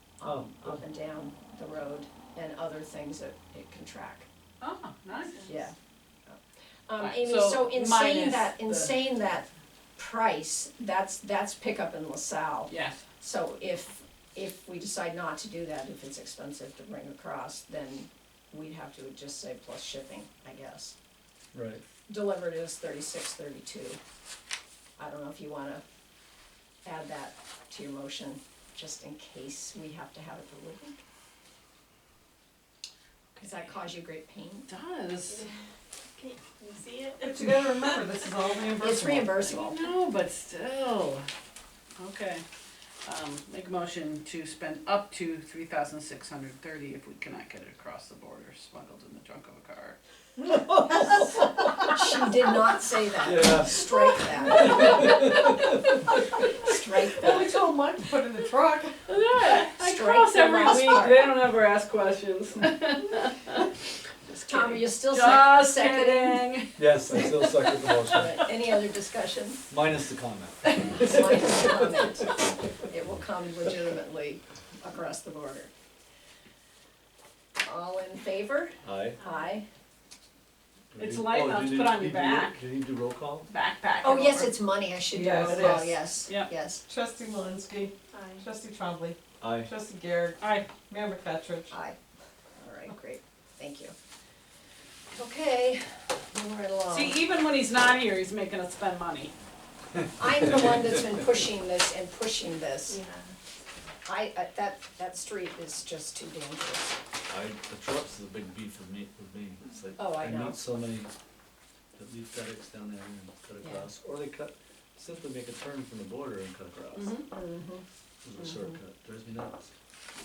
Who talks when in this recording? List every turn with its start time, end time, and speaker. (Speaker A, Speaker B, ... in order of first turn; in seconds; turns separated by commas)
Speaker A: 0.2-4.3, Speaker B: 0.2-0.8, Speaker C: 4.6-5.6, Speaker A: 5.5-5.7, Speaker A: 6.2-20.9, Speaker C: 7.0-8.9, Speaker C: 12.7-13.0, Speaker B: 21.5-21.8, Speaker A: 22.1-24.0, Speaker A: 25.0-25.8, Speaker A: 26.8-31.0, Speaker A: 33.4-34.7, Speaker C: 34.7-35.4, Speaker D: 36.1-37.4, Speaker E: 37.2-39.5, Speaker A: 38.8-39.8, Speaker C: 39.5-41.3, Speaker C: 42.0-42.4, Speaker C: 43.0-50.0, Speaker A: 50.9-55.4, Speaker B: 53.2-53.9, Speaker B: 54.5-55.4, Speaker A: 56.5-57.6, Speaker E: 57.2-58.9, Speaker C: 59.1-63.7, Speaker A: 59.5-61.4, Speaker C: 64.3-67.3, Speaker A: 64.5-69.6, Speaker B: 66.8-68.3, Speaker B: 69.7-71.7, Speaker A: 71.0-75.7, Speaker A: 77.6-79.7, Speaker B: 78.8-79.2, Speaker D: 79.2-79.5, Speaker B: 80.9-83.5, Speaker C: 81.0-82.6, Speaker C: 83.5-84.5, Speaker A: 84.0-86.8, Speaker E: 85.1-86.0, Speaker C: 85.6-86.5, Speaker E: 86.8-91.7, Speaker D: 88.1-88.4, Speaker B: 89.4-89.7, Speaker C: 90.4-90.7, Speaker A: 91.7-92.0, Speaker A: 92.6-93.9, Speaker A: 95.1-97.2, Speaker C: 96.9-99.3, Speaker A: 100.1-103.0, Speaker D: 102.9-103.3, Speaker A: 104.0-107.0, Speaker B: 107.3-111.1, Speaker A: 110.0-110.7, Speaker B: 112.0-117.2, Speaker C: 116.9-117.2, Speaker A: 117.3-117.8, Speaker B: 118.2-119.7